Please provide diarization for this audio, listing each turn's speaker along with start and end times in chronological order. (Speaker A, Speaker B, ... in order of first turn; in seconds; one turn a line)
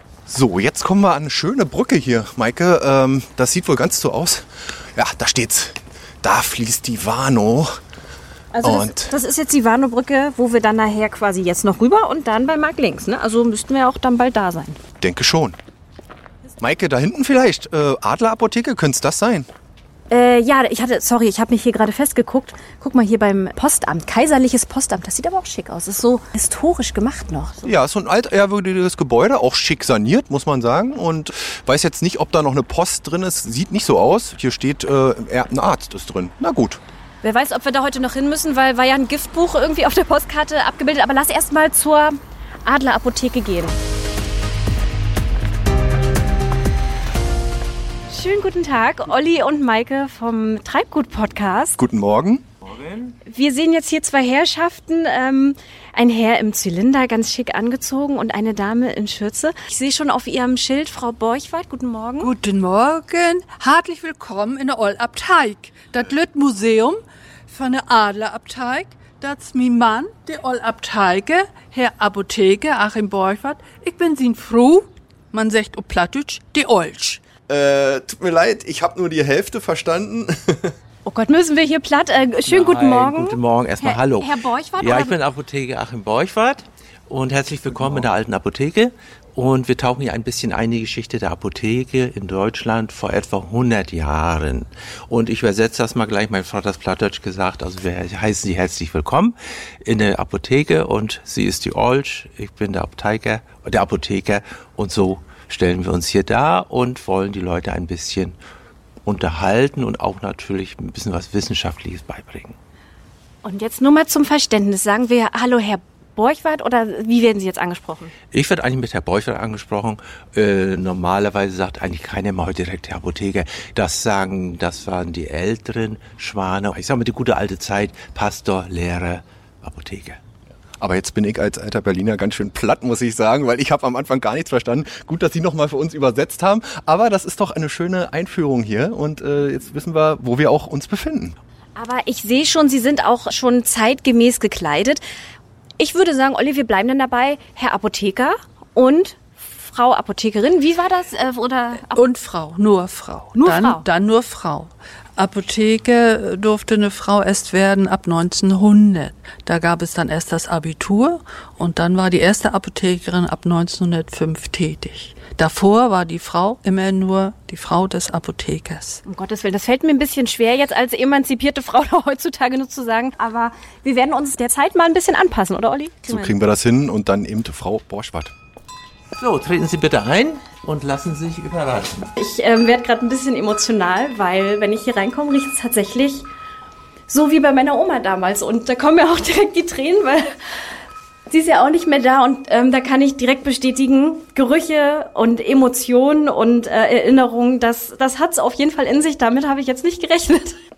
Speaker A: 0.3-7.8
Speaker B: 8.5-14.8
Speaker A: 8.6-9.2
Speaker A: 15.0-15.6
Speaker A: 16.6-19.5
Speaker B: 20.1-27.7
Speaker A: 27.6-36.8
Speaker B: 37.2-43.8
Speaker B: 48.1-51.8
Speaker A: 51.8-52.5
Speaker C: 52.6-53.2
Speaker B: 53.2-62.3
Speaker D: 62.2-77.2
Speaker A: 77.5-80.8
Speaker B: 81.0-85.2
Speaker C: 82.5-108.4
Speaker C: 109.0-112.6
Speaker B: 113.4-118.1
Speaker C: 118.3-130.2
Speaker A: 130.8-141.4
Speaker B: 141.8-145.0
Speaker B: 145.8-152.0
Speaker D: 151.9-169.0
Speaker B: 153.3-153.8
Speaker B: 169.1-176.3
Speaker A: 176.1-178.3
Speaker C: 179.2-182.1
Speaker B: 182.2-186.3
Speaker B: 187.1-190.3
Speaker B: 191.3-200.6